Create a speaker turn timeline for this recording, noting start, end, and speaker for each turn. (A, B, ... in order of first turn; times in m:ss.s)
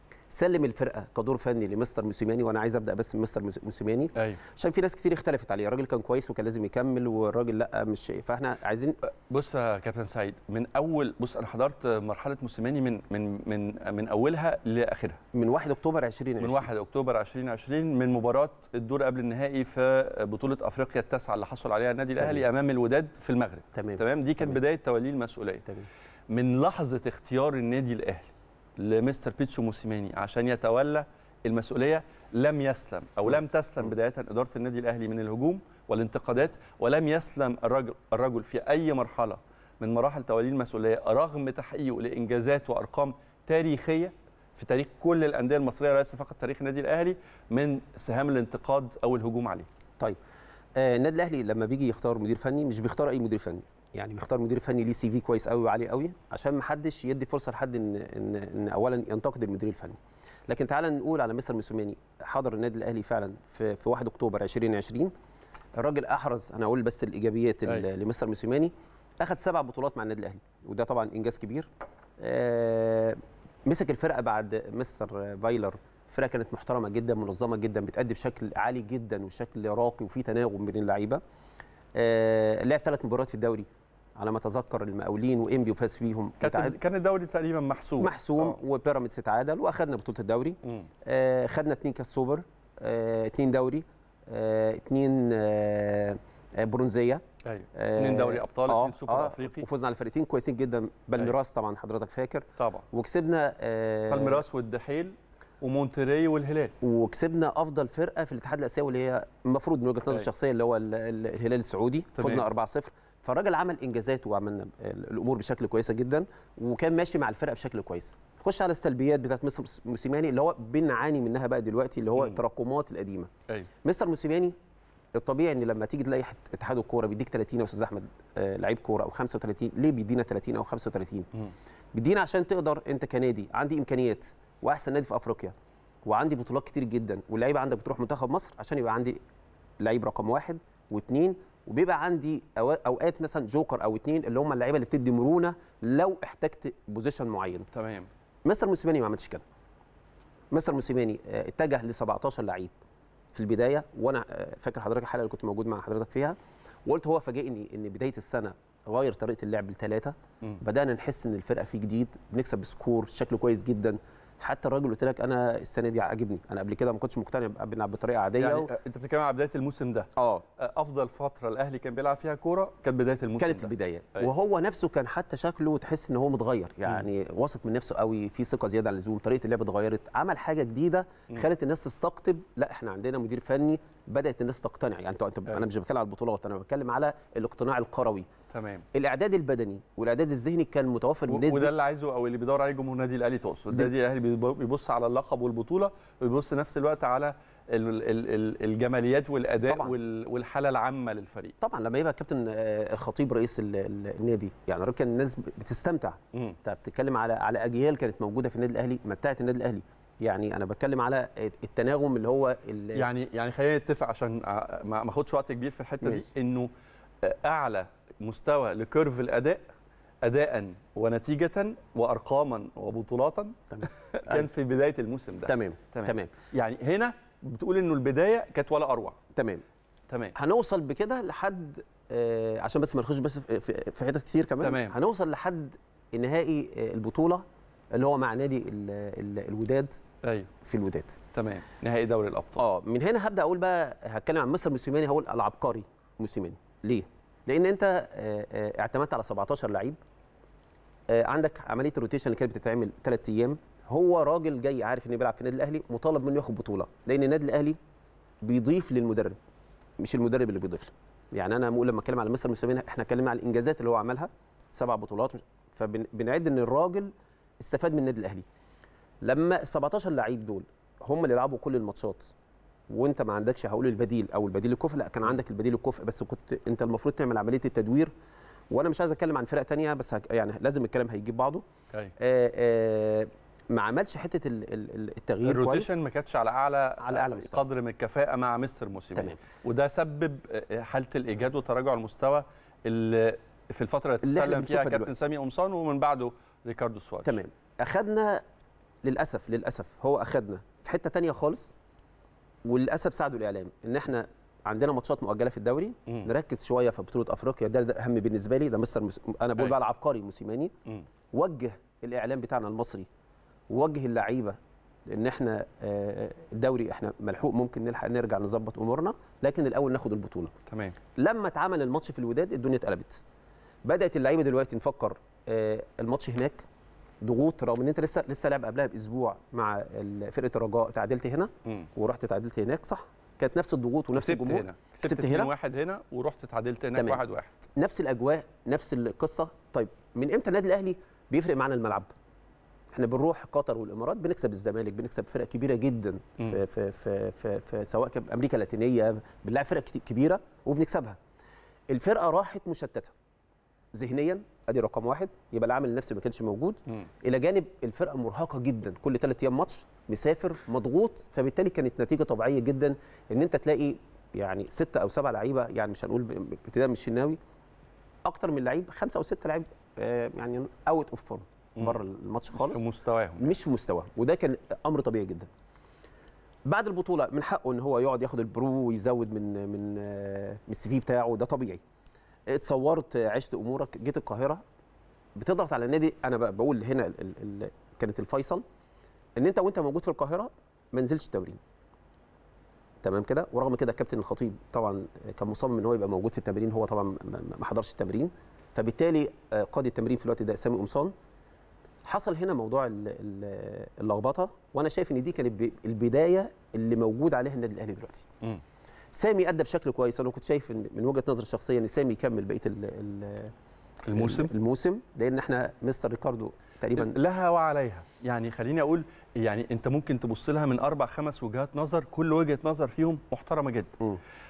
0:00.3-0:09.0 A
0:09.0-0:15.2 B
0:15.3-0:16.7 A
0:16.4-0:25.7 B
0:23.8-0:24.6 A
0:26.3-0:49.7 B
0:50.8-1:05.1 A
1:05.8-1:21.2 A
1:22.0-1:26.8 A
1:26.4-1:28.6 B
1:28.0-1:37.2 A
1:37.4-1:39.7 B
1:37.8-1:44.4 A
1:42.6-1:42.9 B
1:44.1-1:46.7 B
1:46.8-2:03.3 A
1:52.2-1:52.5 B
2:03.8-2:04.6 A
2:05.2-2:11.3 A
2:11.9-2:19.2 A
2:19.8-2:27.7 A
2:27.7-2:28.1 B
2:28.4-2:29.4 A
2:30.5-2:32.7 A
2:33.3-2:48.7 A
2:48.4-2:54.3 B
2:50.2-2:50.4 A
2:53.4-3:08.3 A
3:08.5-3:08.9 B
3:08.9-3:11.7 A
3:11.3-3:21.6 B
3:19.7-3:19.9 A
3:21.6-3:33.1 A
3:33.0-3:36.7 B
3:36.0-3:36.3 A
3:37.2-3:39.6 B
3:40.2-3:49.2 B
3:43.7-3:44.5 A
3:45.5-3:46.3 A
3:49.4-3:49.6 A
3:50.1-3:50.4 B
3:50.4-3:59.9 A
3:54.6-3:55.0 B
4:00.2-4:00.5 B
4:00.6-4:01.2 A
4:01.3-4:02.6 B
4:02.6-4:10.0 A
4:11.1-4:17.8 A
4:18.4-4:19.4 A
4:20.0-4:28.4 A
4:29.2-4:32.3 A
4:32.9-4:38.1 A
4:38.7-4:41.6 A
4:42.2-4:45.9 A
4:45.4-4:57.4 B
4:47.0-4:47.6 A
4:54.2-4:55.2 A
4:57.2-4:58.4 A
4:59.0-5:01.7 A
5:02.6-5:10.7 A
5:11.3-5:13.1 A
5:13.7-5:20.5 A
5:20.7-5:21.0 B
5:21.2-5:23.2 A
5:23.8-5:26.6 A
5:27.2-5:35.5 A
5:34.1-5:37.7 B
5:37.0-5:37.2 A
5:37.8-5:42.1 A
5:42.9-5:51.2 A
5:51.9-5:53.1 A
5:53.9-6:07.4 A
6:08.2-6:12.8 A
6:12.5-6:13.5 B
6:13.4-6:15.5 A
6:16.7-6:21.8 A
6:22.5-6:24.6 A
6:25.4-6:28.6 A
6:29.4-6:31.6 A
6:33.0-6:41.1 A
6:42.0-6:48.3 A
6:49.1-6:53.5 A
6:54.1-6:54.5 B
6:54.2-6:57.2 A
6:57.0-7:04.0 B